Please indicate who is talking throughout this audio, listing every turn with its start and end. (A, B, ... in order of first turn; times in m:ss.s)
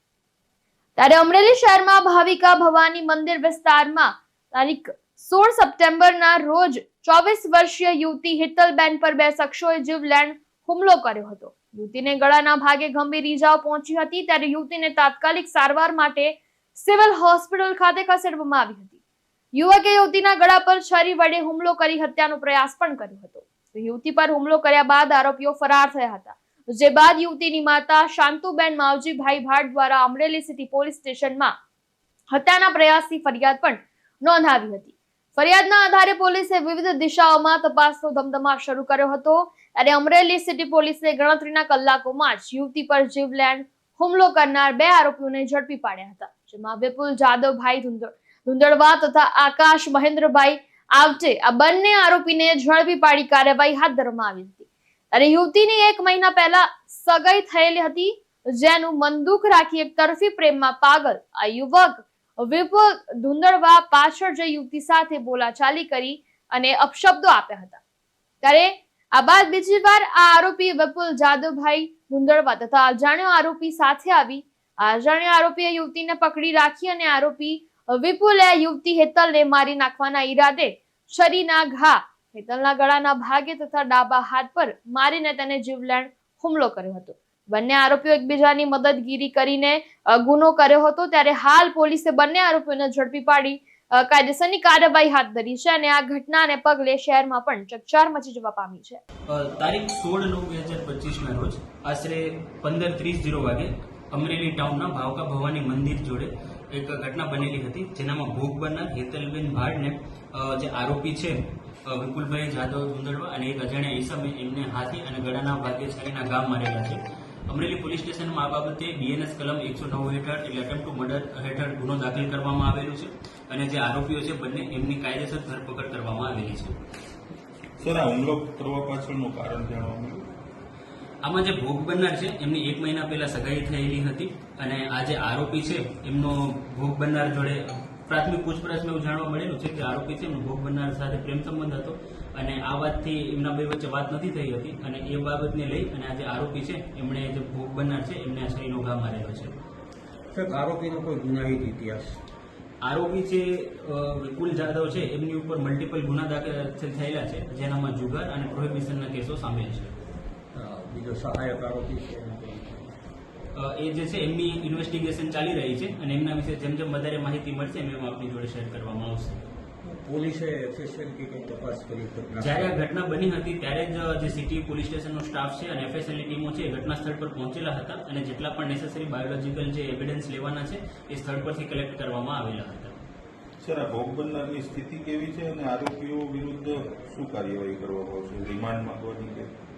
0:01.0-0:19.0 A
0:19.6-0:31.5 A
0:32.3-1:07.8 A
1:08.4-1:39.0 A
1:39.3-2:06.8 B
2:07.8-2:10.2 C
2:11.2-2:29.5 B
2:30.3-2:32.2 D
2:32.8-2:39.9 B
2:40.5-2:42.9 D
2:43.5-2:49.4 B
2:49.8-2:52.8 D
2:52.4-3:03.0 B
3:03.6-3:09.5 C